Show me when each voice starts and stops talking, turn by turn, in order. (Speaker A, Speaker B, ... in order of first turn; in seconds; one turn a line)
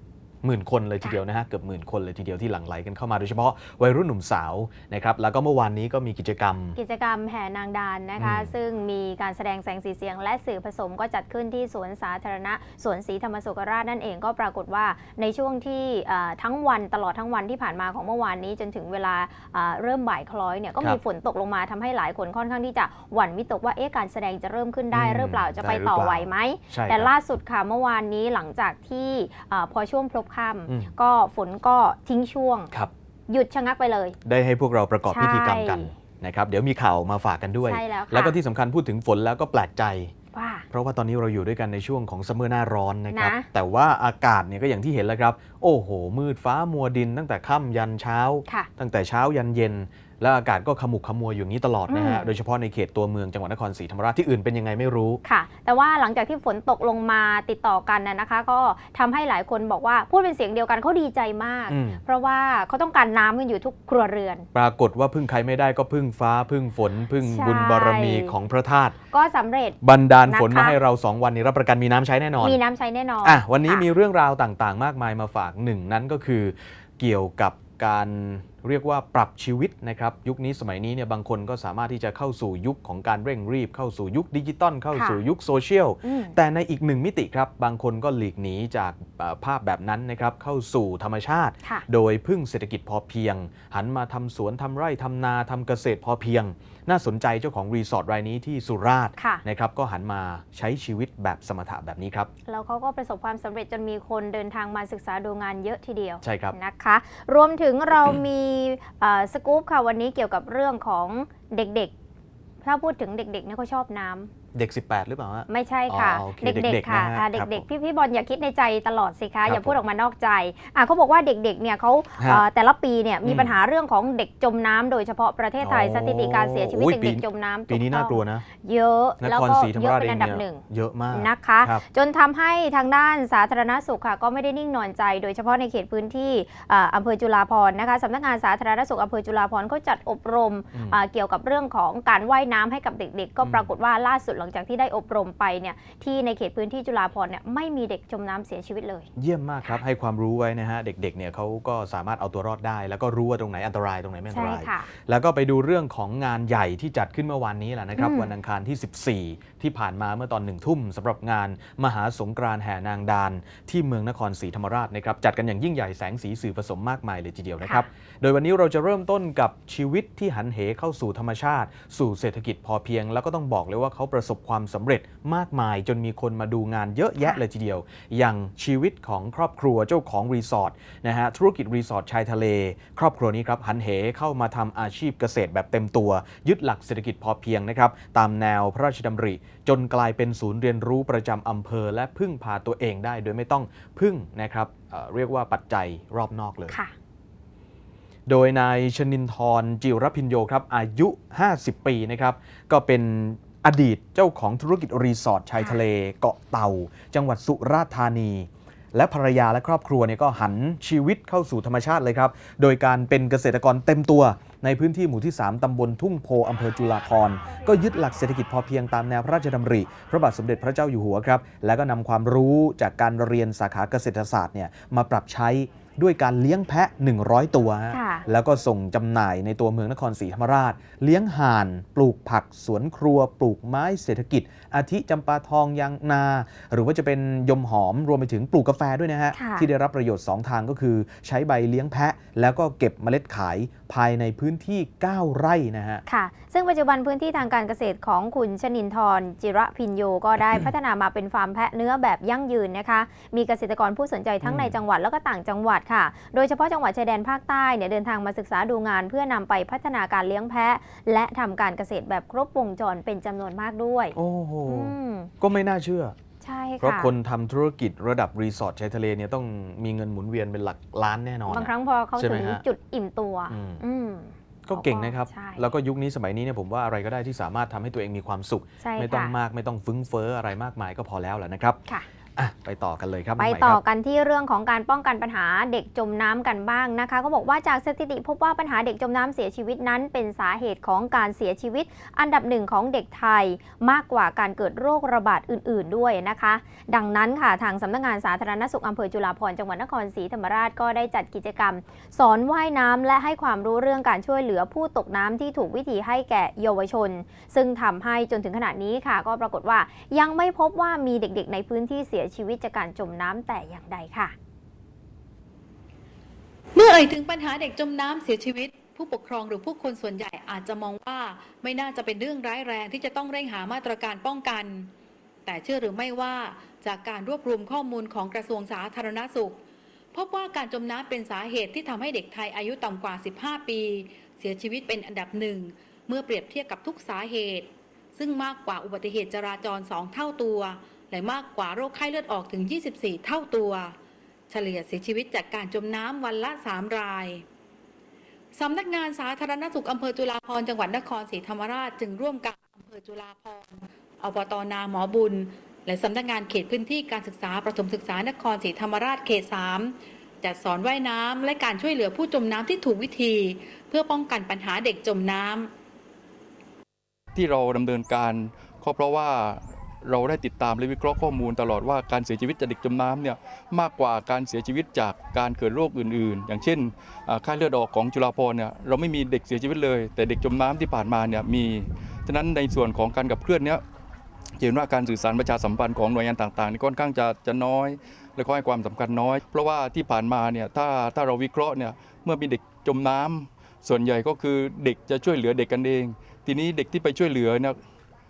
Speaker A: 0.4-6.8
Speaker B: 6.8-32.7
Speaker A: 8.2-8.5
Speaker A: 24.9-27.1
Speaker A: 30.7-30.9
Speaker B: 33.3-34.2
Speaker A: 34.2-40.1
Speaker B: 35.1-35.9
Speaker B: 37.6-38.4
Speaker B: 40.3-40.6
Speaker A: 40.7-55.2
Speaker B: 43.1-43.5
Speaker B: 51.9-52.3
Speaker B: 55.2-64.5
Speaker A: 61.7-62.0
Speaker A: 64.5-69.0
Speaker B: 67.2-68.3
Speaker B: 69.1-70.8
Speaker A: 69.8-72.6
Speaker B: 72.4-73.8
Speaker A: 73.2-102.3
Speaker B: 84.9-85.2
Speaker B: 86.0-86.3
Speaker B: 99.2-99.4
Speaker B: 102.5-111.9
Speaker A: 106.2-106.6
Speaker B: 112.6-114.3
Speaker A: 114.5-117.7
Speaker B: 115.5-149.1
Speaker A: 119.5-119.8
Speaker A: 122.2-122.5
Speaker A: 123.2-123.5
Speaker A: 125.6-128.4
Speaker A: 129.2-131.8
Speaker A: 140.7-141.0
Speaker A: 143.4-143.7
Speaker A: 149.2-196.8
Speaker B: 154.3-154.9
Speaker B: 158.0-158.3
Speaker B: 196.7-196.9
Speaker A: 198.3-246.0
Speaker B: 227.9-228.2
Speaker B: 239.3-239.7
Speaker B: 246.1-265.3
Speaker A: 254.4-254.8
Speaker A: 264.1-266.2
Speaker B: 266.4-267.1
Speaker A: 266.8-272.6
Speaker B: 271.5-275.7
Speaker A: 273.5-273.8
Speaker A: 274.6-281.8
Speaker B: 278.8-279.3
Speaker A: 282.4-283.8
Speaker B: 283.4-314.4
Speaker C: 316.8-324.9
Speaker C: 325.4-329.6
Speaker C: 330.1-344.0
Speaker C: 344.5-347.4
Speaker C: 348.5-365.7
Speaker D: 367.4-383.8
Speaker D: 384.6-397.8